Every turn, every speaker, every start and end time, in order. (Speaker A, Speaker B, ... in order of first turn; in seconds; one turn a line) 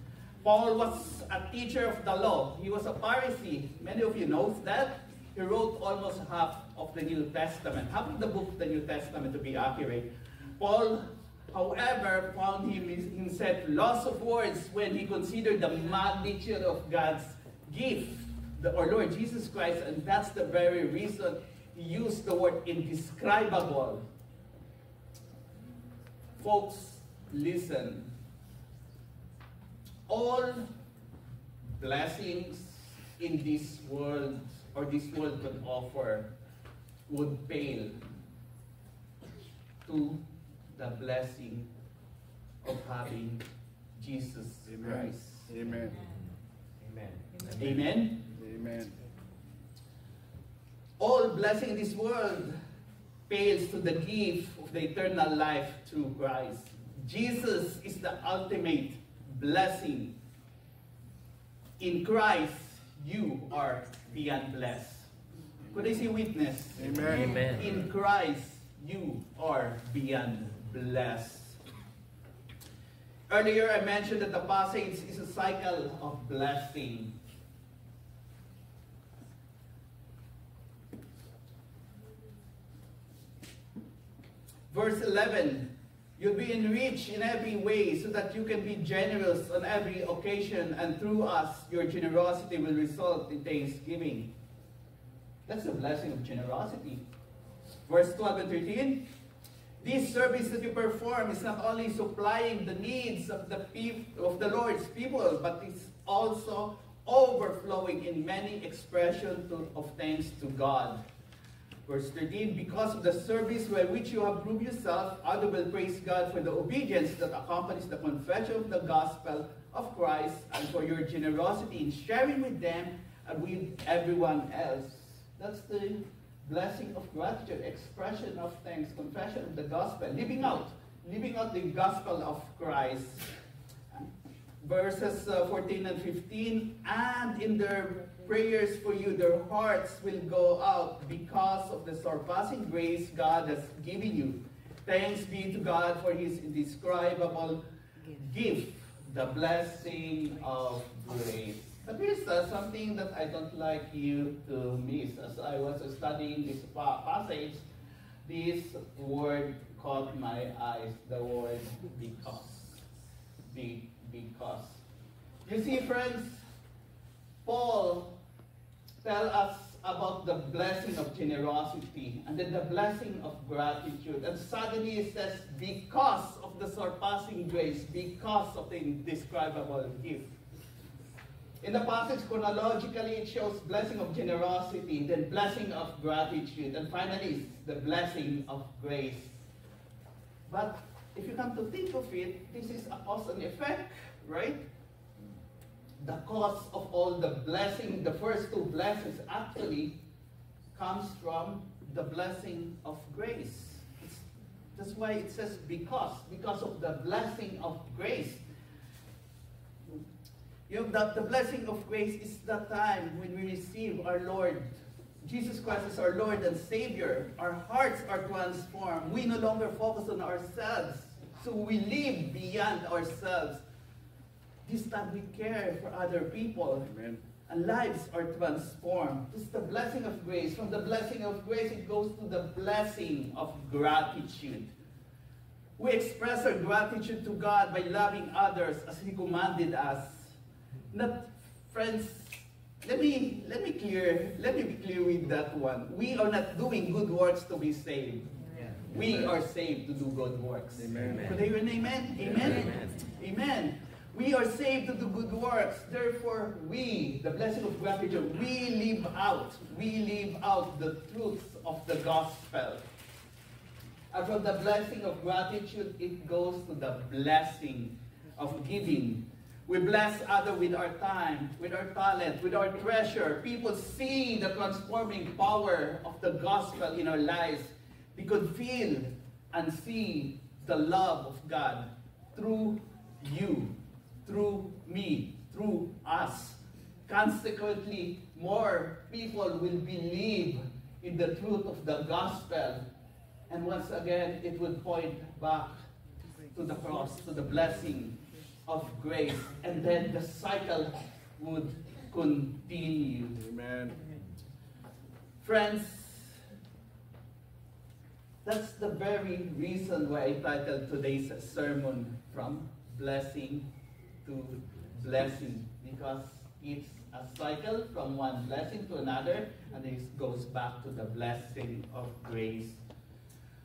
Speaker A: 0.4-24.0
Speaker A: 26.4-28.1
Speaker A: 30.1-30.7
Speaker A: 31.8-36.3
Speaker A: 37.1-38.0
Speaker A: 39.8-40.2
Speaker A: 40.7-41.7
Speaker A: 42.6-43.4
Speaker A: 44.0-45.5
Speaker B: 44.6-46.0
Speaker A: 47.5-48.2
Speaker B: 48.3-49.0
Speaker A: 51.0-52.6
Speaker A: 53.3-60.1
Speaker A: 61.8-65.1
Speaker A: 65.7-71.6
Speaker B: 66.8-67.8
Speaker A: 73.3-77.1
Speaker A: 84.7-94.3
Speaker A: 95.5-97.0
Speaker A: 97.8-99.0
Speaker A: 99.8-111.0
Speaker A: 111.8-133.3
Speaker A: 134.6-147.6
Speaker A: 148.2-157.6
Speaker A: 158.2-162.8
Speaker A: 163.5-164.8
Speaker A: 165.4-166.4
Speaker A: 167.4-168.1
Speaker A: 169.0-180.3
Speaker A: 181.6-189.4
Speaker A: 190.4-194.6
Speaker A: 196.0-200.0
Speaker A: 200.7-208.4
Speaker A: 210.7-223.6
Speaker A: 224.6-226.9
Speaker B: 226.8-227.2
Speaker A: 227.4-234.7
Speaker A: 235.8-240.4
Speaker A: 240.9-262.8
Speaker B: 250.8-251.3
Speaker A: 264.1-292.8
Speaker A: 293.5-295.8
Speaker A: 296.5-303.4
Speaker B: 303.4-304.0
Speaker A: 305.4-306.4
Speaker A: 308.4-313.7
Speaker A: 314.2-322.8